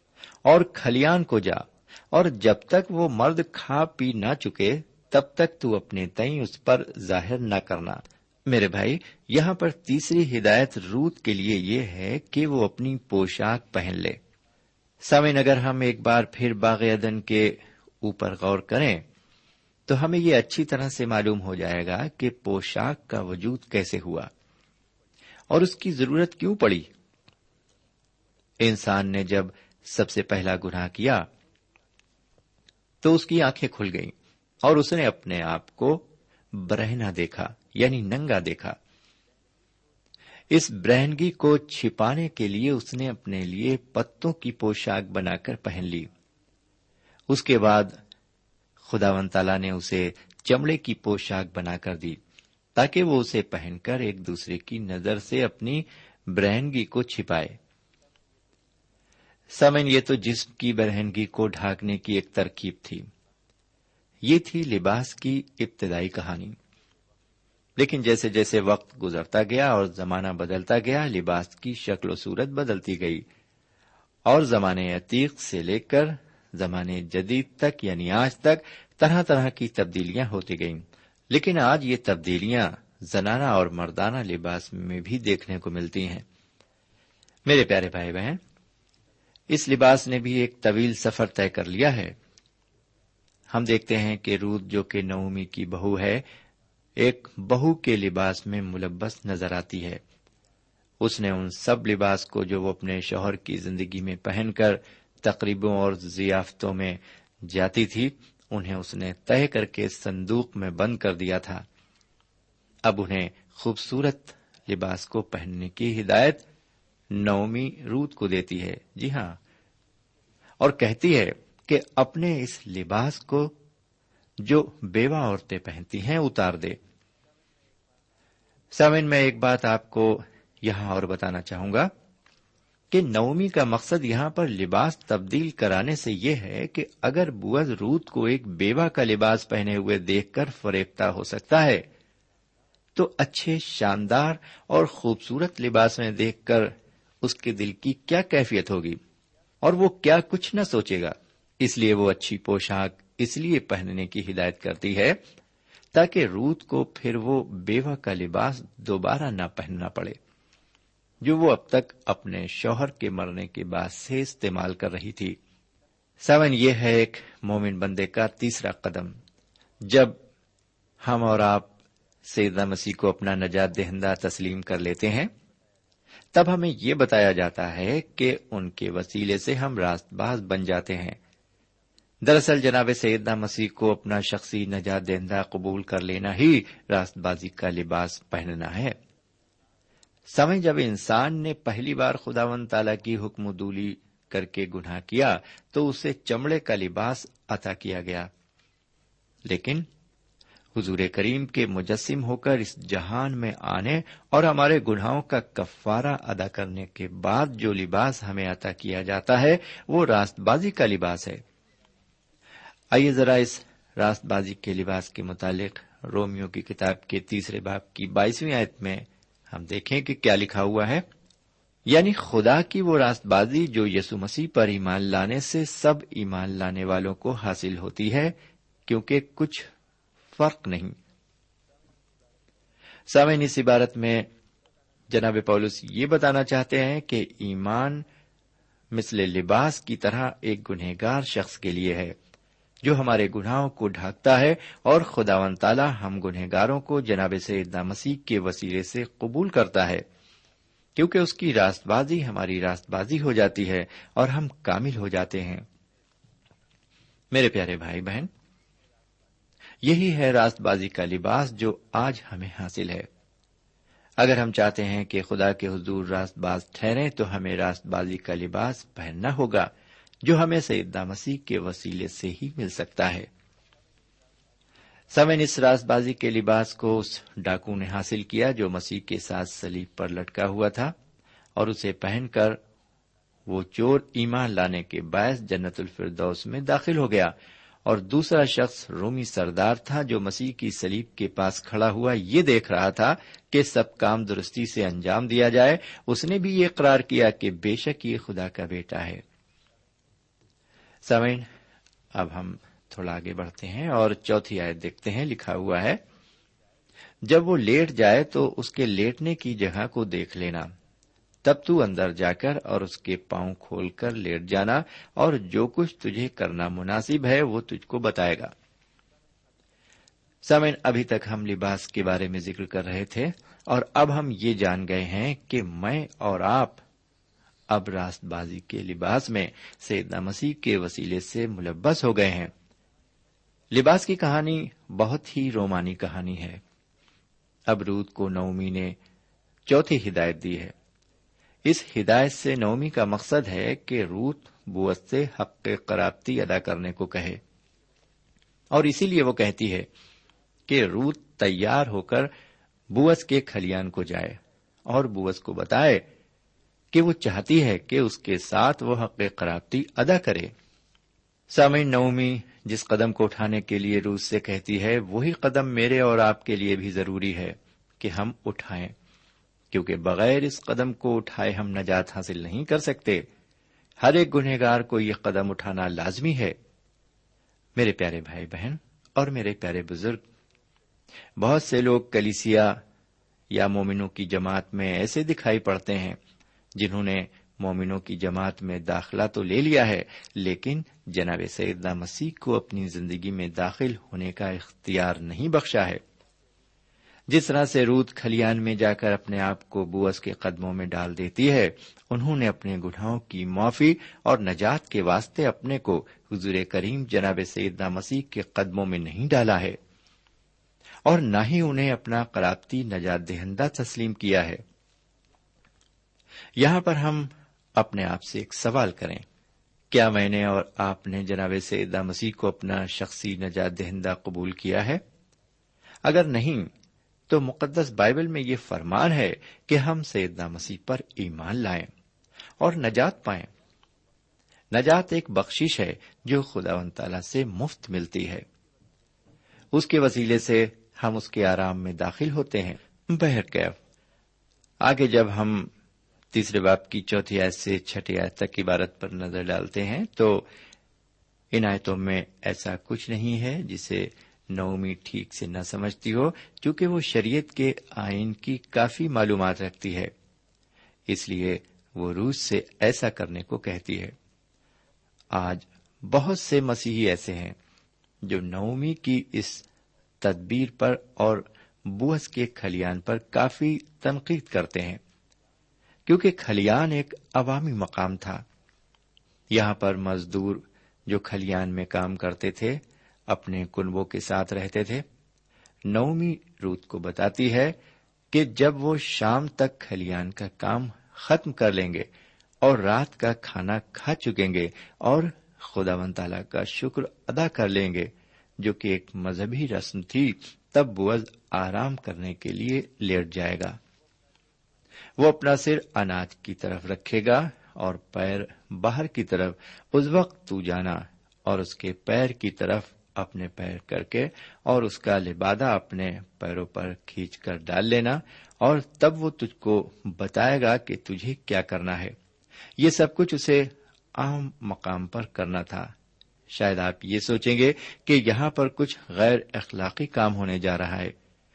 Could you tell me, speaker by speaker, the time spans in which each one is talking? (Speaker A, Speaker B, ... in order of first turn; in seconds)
Speaker A: 0.5-14.2, 15.0-19.0, 19.9-24.3, 25.5-26.9, 28.6-31.3, 33.0-34.1, 34.6-38.8, 40.5-46.1, 47.3-48.0, 48.8-52.2, 52.8-57.6, 59.5-63.1, 64.2-66.6, 67.8-73.2, 74.3-86.3, 87.5-88.4, 89.5-92.2, 93.5-96.2, 97.0-100.0, 101.0-111.7, 112.9-116.4, 117.1-119.4, 120.6-123.5, 124.4-126.8, 128.7-131.9, 132.9-141.8, 143.0-149.0, 149.6-155.2, 155.9-160.2, 161.2-165.4, 166.2-169.2, 169.8-170.2, 171.0-171.7, 172.3-175.3, 176.3-181.2, 182.2-189.0, 190.3-198.3, 199.5-199.9, 200.8-211.4, 212.9-221.1, 221.9-228.3, 228.9-229.7, 230.3-230.9, 233.1-234.3, 235.1-238.0, 238.9-242.2, 242.8-250.1, 251.0-255.7, 257.3-258.3, 259.8-263.1, 264.2-269.7, 270.2-273.3, 275.1-280.9, 281.6-282.6, 283.5-287.3, 287.9-299.2, 301.0-301.5, 302.1-306.0, 307.2-310.7, 311.4-318.5, 320.4-326.8, 327.7-332.5, 333.7-336.6, 337.7-339.0, 339.7-340.8, 341.7-347.4, 348.7-349.9, 350.7-352.3, 352.9-356.1, 356.9-360.5, 361.5-368.9, 369.7-373.3, 374.0-376.6, 377.8-380.2, 381.4-382.8, 383.5-386.2, 386.8-396.0, 397.3-409.8, 411.1-414.6, 416.6-419.2, 419.9-425.0, 426.1-426.7, 427.3-431.9, 432.6-433.5, 434.7-438.4, 439.7-443.8, 444.8-445.7, 446.3-450.5, 451.5-460.1, 461.1-464.1, 465.3-467.6, 468.2-469.6, 470.2-475.0, 476.1-478.4, 479.5-485.1, 485.9-487.8, 488.3-492.1, 492.6-503.8, 505.2-522.2, 522.8-525.9, 526.5-531.1